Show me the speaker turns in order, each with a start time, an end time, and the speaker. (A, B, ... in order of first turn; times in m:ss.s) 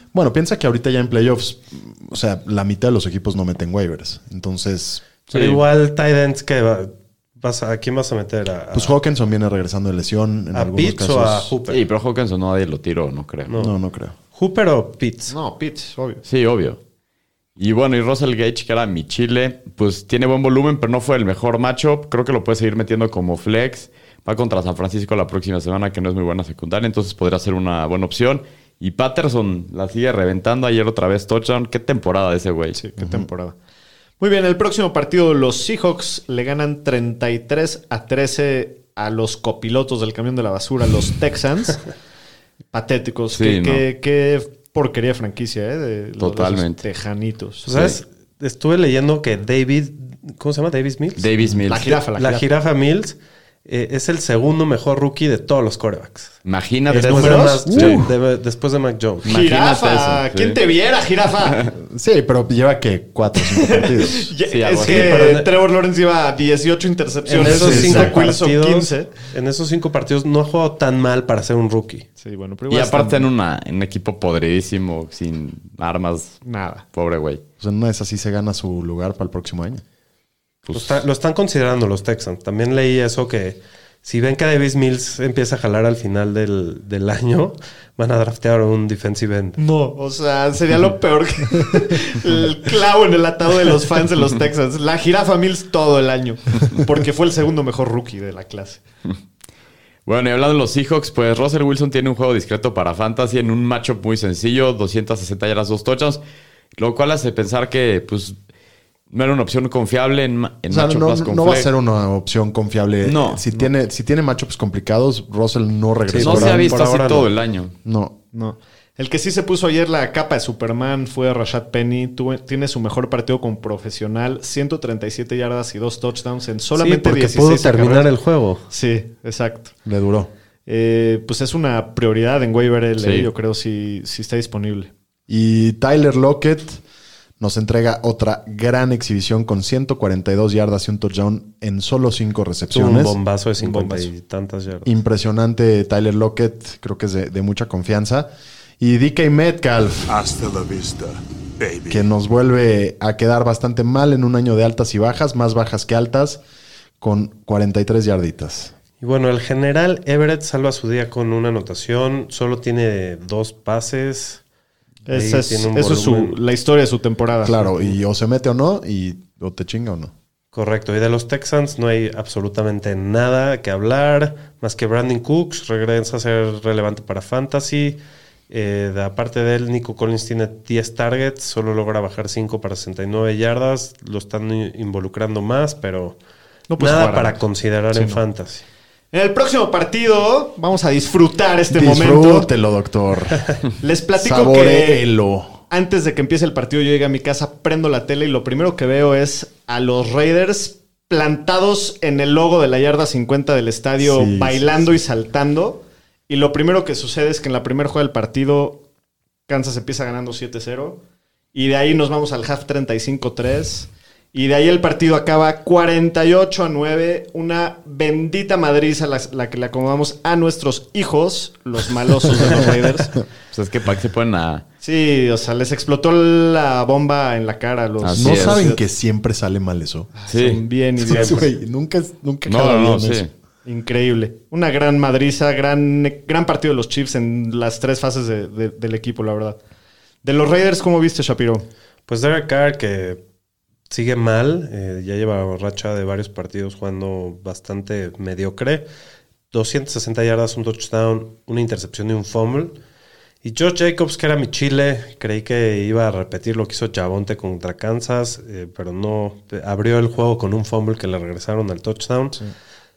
0:00.1-0:05.1 A
0:05.3-0:05.6 B
0:05.3-0:09.0 C
0:08.7-0:11.6 A
0:10.5-0:11.8 C
0:11.7-0:13.5 B
0:13.5-0:13.7 C
0:13.6-0:14.1 A
0:14.3-0:15.3 C
0:15.3-0:16.2 D
0:16.3-0:16.8 B
0:17.6-0:32.8 B
0:32.8-0:33.6 D
0:33.0-0:33.3 A
0:34.2-0:41.8 D
0:42.7-0:47.7 D
0:43.3-0:43.8 B
0:46.2-0:46.8 B
0:47.6-0:51.3 C
0:47.7-0:48.0 B
0:51.2-0:51.9 B
0:51.7-0:52.5 D
0:51.8-0:56.4 C
0:56.4-0:58.0 B
0:56.9-0:59.2 C
0:56.9-0:57.6 D
0:57.7-0:58.1 A
0:59.2-1:00.6 B
0:59.2-1:01.7 D
1:01.8-1:04.3 A
1:03.5-1:09.1 D
1:04.5-1:05.4 B
1:04.8-1:05.5 C
1:07.3-1:12.1 C
1:07.4-1:08.3 A
1:12.2-1:13.3 D
1:12.7-1:16.4 B
1:16.4-1:16.8 D
1:16.9-1:17.4 B
1:17.6-1:19.8 A
1:20.6-1:21.0 B
1:20.7-1:29.6 C
1:29.6-1:38.8 D
1:40.1-1:46.2 B
1:46.8-1:48.4 B
1:49.1-1:51.7 B
1:50.7-1:56.8 A
1:53.0-1:53.4 B
1:56.1-1:57.3 C
1:56.2-1:57.8 B
1:57.8-1:58.2 A
1:58.3-2:08.1 D
2:06.8-2:08.6 C
2:08.7-2:09.7 D
2:09.8-2:10.3 A
2:10.7-2:14.9 D
2:13.0-2:13.3 B
2:15.3-2:16.8 A
2:17.4-2:23.2 A
2:22.7-2:24.9 C
2:23.6-2:24.1 D
2:24.8-2:30.3 A
2:31.8-2:36.4 A
2:37.0-2:38.7 A
2:39.0-2:44.4 C
2:45.1-2:47.6 D
2:45.1-2:46.4 C
2:47.4-2:50.1 A
2:50.5-3:06.2 C
3:06.7-3:07.4 D
3:06.8-3:08.6 C
3:07.9-3:08.2 D
3:09.1-3:12.5 D
3:11.7-3:13.5 A
3:13.8-3:15.1 D
3:14.2-3:15.6 A
3:15.7-3:28.8 D
3:24.0-3:24.9 A
3:29.5-3:31.0 D
3:31.5-3:43.2 D
3:43.5-3:44.6 B
3:44.8-3:48.8 D
3:48.0-3:48.7 B
3:48.2-3:50.1 A
3:50.2-3:51.5 D
3:50.3-3:50.6 B
3:51.0-3:53.2 A
3:52.5-3:53.3 B
3:53.6-3:59.6 D
4:00.2-4:01.7 D
4:02.1-4:03.2 C
4:03.9-4:08.9 C
4:09.5-4:12.8 C
4:13.4-4:22.4 C